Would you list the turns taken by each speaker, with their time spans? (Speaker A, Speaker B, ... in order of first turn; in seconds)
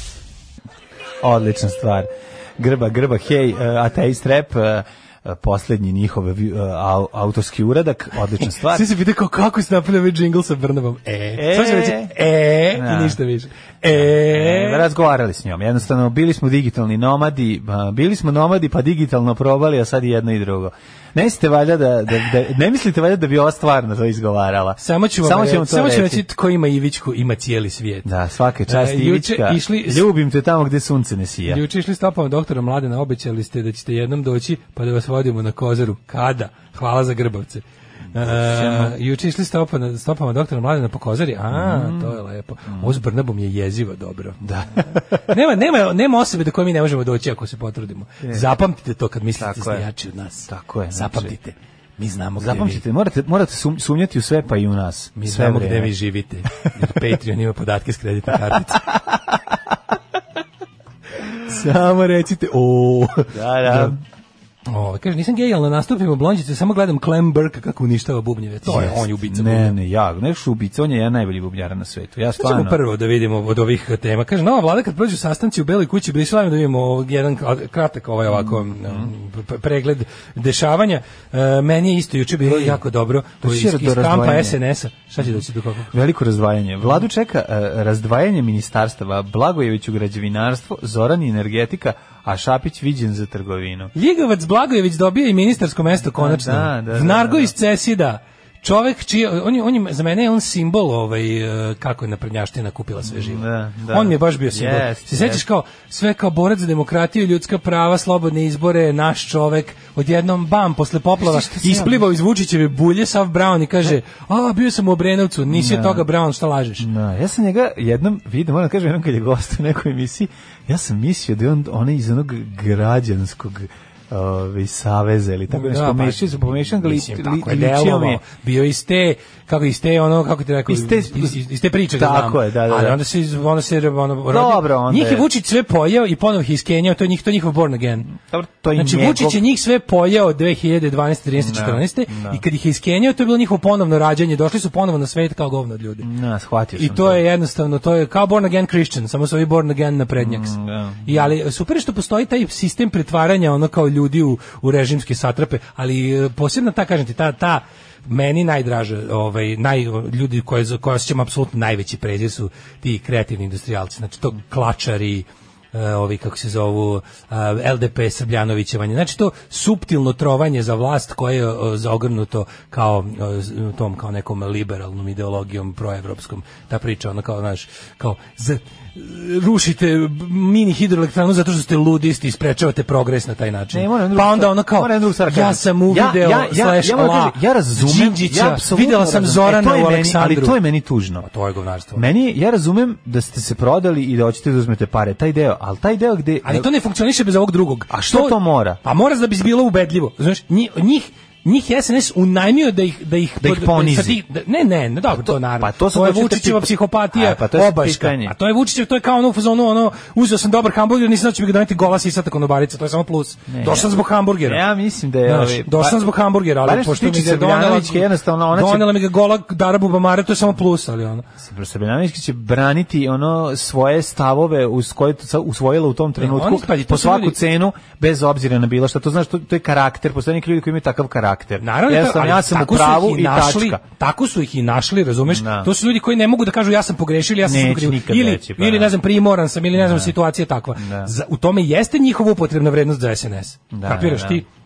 Speaker A: 1.2-8.9, 11.4-12.2, 12.7-13.2, 13.9-26.2, 28.1-31.6, 38.1-38.9, 41.5-43.0, 44.4-45.2, 49.4-49.9, 50.5-51.3, 52.4-55.9, 63.3-64.0, 68.6-72.8, 78.3-79.1, 82.4-82.8, 83.4-84.6, 85.9-93.9, 96.2-97.5, 103.0-105.4, 111.2-112.1, 115.5-116.1, 116.8-128.2, 130.7-131.4, 131.9-133.0, 134.3-135.3, 138.1-139.4, 141.4-142.4, 146.0-147.2, 150.2-151.3, 183.7-191.3, 191.9-196.7, 197.9-198.8, 203.4-204.2, 205.1-208.3, 213.5-218.9, 221.4-233.8, 235.2-235.7, 237.4-238.9, 239.8-240.1, 240.8-241.1, 243.7-244.4
Speaker B: 8.4-14.8, 24.8-28.1, 28.7-30.1, 31.5-52.8, 55.2-58.9, 61.4-64.0, 64.7-69.8, 72.4-85.9, 94.0-116.9, 125.5-138.1, 138.8-146.1, 146.8-150.5, 151.1-190.6, 191.2-192.0, 196.4-214.7, 215.2-221.3, 226.2-227.4, 231.6-244.4